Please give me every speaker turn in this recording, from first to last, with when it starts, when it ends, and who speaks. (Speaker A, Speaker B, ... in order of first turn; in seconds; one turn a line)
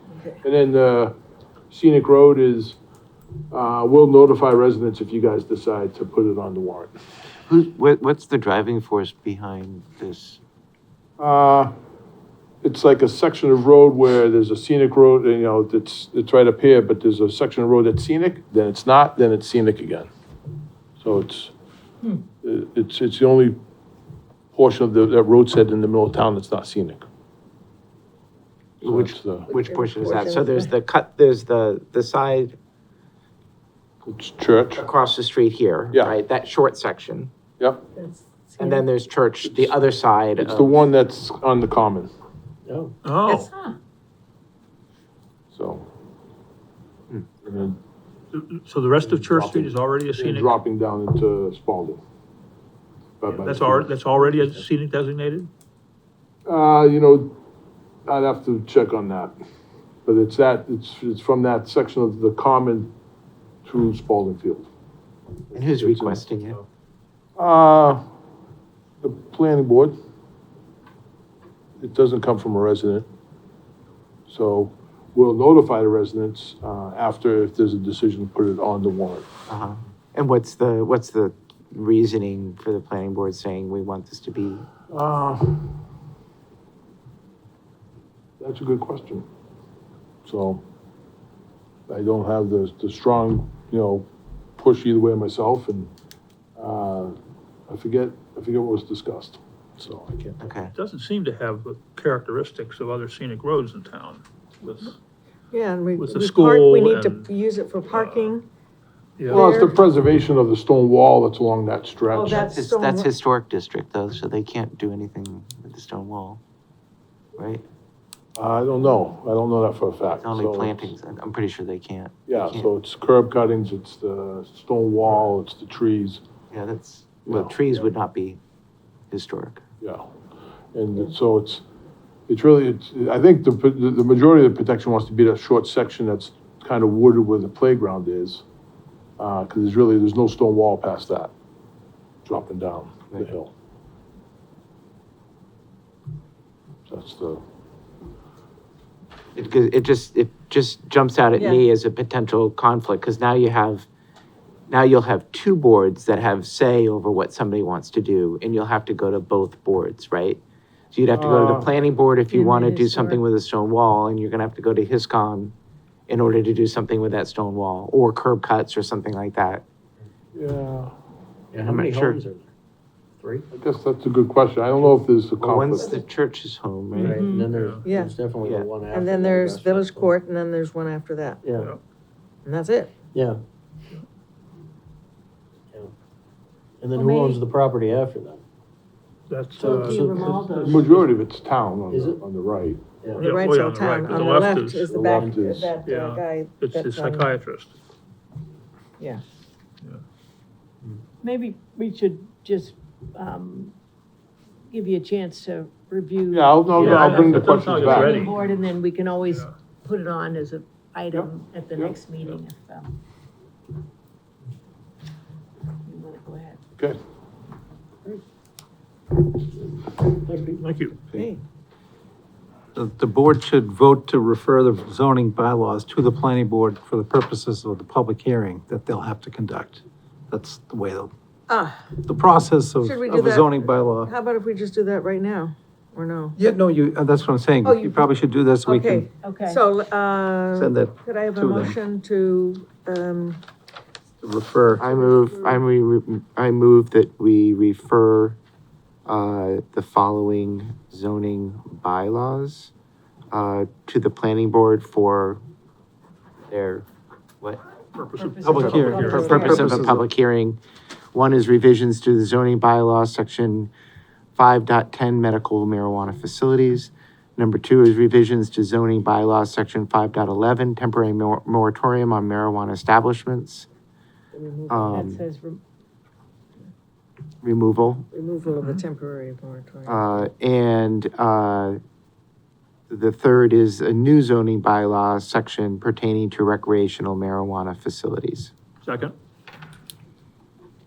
Speaker A: 0.1-0.4
Speaker B: 0.4-1.1
Speaker B: 1.7-2.8
Speaker B: 3.5-6.9
Speaker C: 7.5-10.4
Speaker B: 11.2-11.7
Speaker B: 12.6-20.1
Speaker B: 21.0-21.5
Speaker B: 22.4-23.6
Speaker B: 24.5-27.0
Speaker C: 28.8-32.5
Speaker B: 28.8-29.5
Speaker A: 29.5-30.7
Speaker B: 34.0-34.8
Speaker C: 34.8-37.3
Speaker B: 37.6-37.9
Speaker D: 38.0-38.8
Speaker C: 38.6-40.7
Speaker B: 39.5-39.8
Speaker B: 40.4-42.1
Speaker E: 42.6-42.9
Speaker F: 43.0-43.5
Speaker D: 43.2-43.7
Speaker B: 45.5-45.9
Speaker B: 47.4-47.8
Speaker F: 48.3-50.6
Speaker E: 49.0-49.7
Speaker B: 50.2-52.0
Speaker B: 53.2-54.0
Speaker F: 53.3-55.5
Speaker B: 56.5-57.3
Speaker B: 58.0-59.3
Speaker B: 60.0-62.9
Speaker B: 63.6-64.7
Speaker B: 65.5-66.6
Speaker C: 65.5-66.6
Speaker B: 67.4-68.0
Speaker B: 69.0-69.9
Speaker B: 71.8-73.0
Speaker B: 74.3-79.3
Speaker C: 79.5-84.7
Speaker B: 84.9-85.8
Speaker B: 88.4-89.2
Speaker B: 90.2-90.6
Speaker B: 91.9-94.1
Speaker B: 94.6-95.9
Speaker B: 96.6-97.2
Speaker B: 97.7-100.5
Speaker C: 100.4-100.7
Speaker F: 100.7-105.0
Speaker A: 105.5-108.5
Speaker F: 106.0-107.3
Speaker F: 107.9-108.3
Speaker A: 109.3-109.7
Speaker B: 109.3-112.5
Speaker A: 112.1-113.1
Speaker C: 112.3-116.4
Speaker C: 117.4-117.6
Speaker B: 118.3-120.9
Speaker C: 120.2-122.7
Speaker B: 122.3-126.2
Speaker C: 126.5-128.4
Speaker B: 127.2-127.5
Speaker C: 129.1-129.6
Speaker B: 129.8-130.1
Speaker B: 130.7-131.6
Speaker B: 132.3-138.4
Speaker B: 139.2-141.3
Speaker B: 142.2-143.5
Speaker B: 146.9-147.4
Speaker C: 149.3-153.9
Speaker A: 151.4-151.6
Speaker C: 154.7-160.4
Speaker C: 160.9-165.5
Speaker B: 161.1-161.7
Speaker A: 162.3-163.2
Speaker C: 166.1-169.6
Speaker B: 170.3-170.9
Speaker E: 171.5-172.5
Speaker C: 171.6-172.2
Speaker E: 173.2-173.4
Speaker B: 173.5-176.0
Speaker C: 175.4-177.2
Speaker F: 176.9-177.8
Speaker E: 176.9-180.1
Speaker D: 177.0-177.5
Speaker A: 177.8-178.2
Speaker C: 178.4-178.7
Speaker A: 178.9-181.4
Speaker E: 181.4-181.7
Speaker A: 182.4-183.0
Speaker E: 183.1-183.4
Speaker E: 186.8-188.4
Speaker A: 186.9-187.4
Speaker F: 189.3-191.1
Speaker A: 189.6-190.4
Speaker D: 189.6-190.9
Speaker E: 189.7-190.4
Speaker B: 190.6-192.8
Speaker E: 191.9-192.2
Speaker E: 193.0-193.3
Speaker A: 193.1-197.3
Speaker F: 193.2-194.9
Speaker E: 194.8-195.8
Speaker B: 194.9-195.7
Speaker F: 195.8-197.7
Speaker D: 201.2-203.7
Speaker D: 204.7-213.0
Speaker B: 206.3-208.2
Speaker F: 206.8-208.4
Speaker B: 211.1-212.0
Speaker D: 215.8-216.6
Speaker E: 220.0-220.6
Speaker F: 220.6-221.0
Speaker A: 221.1-221.4
Speaker G: 222.7-231.1
Speaker A: 231.5-231.9
Speaker G: 232.0-234.1
Speaker A: 232.8-236.3
Speaker G: 236.3-239.1
Speaker A: 237.6-238.1
Speaker A: 238.6-243.4
Speaker D: 239.2-239.6
Speaker G: 240.5-241.8
Speaker G: 244.2-244.8
Speaker C: 244.8-248.4
Speaker A: 244.8-245.6
Speaker C: 249.1-252.7
Speaker C: 253.3-255.4
Speaker C: 256.5-256.8
Speaker F: 257.9-259.7
Speaker D: 258.2-259.8
Speaker G: 258.4-260.0
Speaker C: 258.9-260.6
Speaker C: 261.1-263.7
Speaker C: 264.4-273.7
Speaker A: 274.3-275.1
Speaker C: 274.7-275.2
Speaker D: 274.9-275.6
Speaker C: 277.4-278.0
Speaker A: 278.1-280.1
Speaker F: 278.6-278.8
Speaker C: 279.9-281.8
Speaker C: 282.9-288.5
Speaker F: 288.8-289.1